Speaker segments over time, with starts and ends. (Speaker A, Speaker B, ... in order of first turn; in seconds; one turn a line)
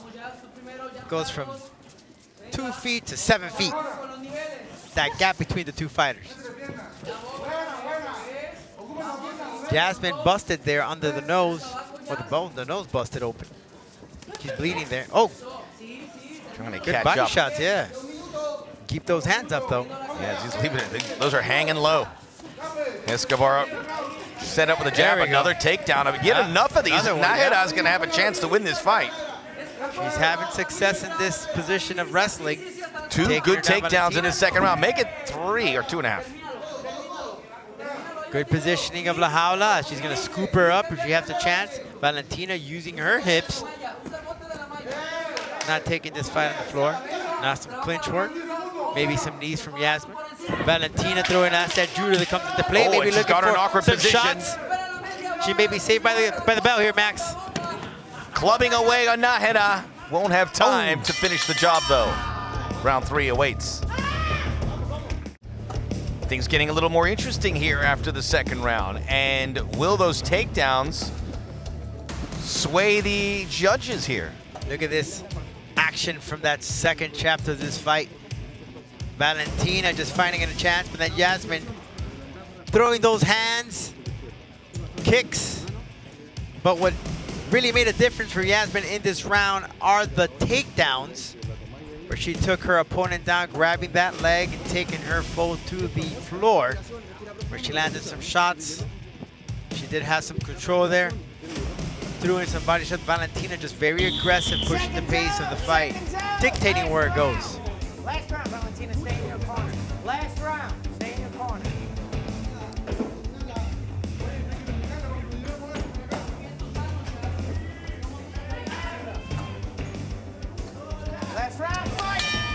Speaker A: 1.1-1.6
Speaker A: 2.5-3.8
Speaker A: 4.9-6.3
Speaker A: 9.7-13.5
Speaker A: 14.4-15.3
Speaker B: 16.6-17.4
Speaker A: 16.8-17.9
Speaker A: 18.9-19.9
Speaker B: 20.1-22.1
Speaker B: 23.0-23.8
Speaker B: 24.4-29.1
Speaker A: 24.9-25.5
Speaker A: 26.2-27.6
Speaker A: 29.9-32.6
Speaker B: 33.1-36.3
Speaker A: 33.2-34.4
Speaker A: 38.3-43.6
Speaker A: 45.6-48.4
Speaker A: 48.9-54.6
Speaker B: 52.7-54.5
Speaker A: 55.4-57.4
Speaker B: 58.3-62.2
Speaker A: 60.6-61.0
Speaker B: 62.8-63.8
Speaker B: 66.3-71.1
Speaker B: 72.4-74.4
Speaker A: 74.7-75.2
Speaker A: 75.8-78.1
Speaker A: 79.2-81.7
Speaker A: 82.7-83.9
Speaker A: 85.0-85.7
Speaker A: 86.6-91.3
Speaker A: 92.1-96.8
Speaker A: 97.5-98.9
Speaker A: 99.7-101.2
Speaker A: 102.2-107.6
Speaker C: 104.6-106.8
Speaker C: 108.0-111.8
Speaker C: 121.3-122.3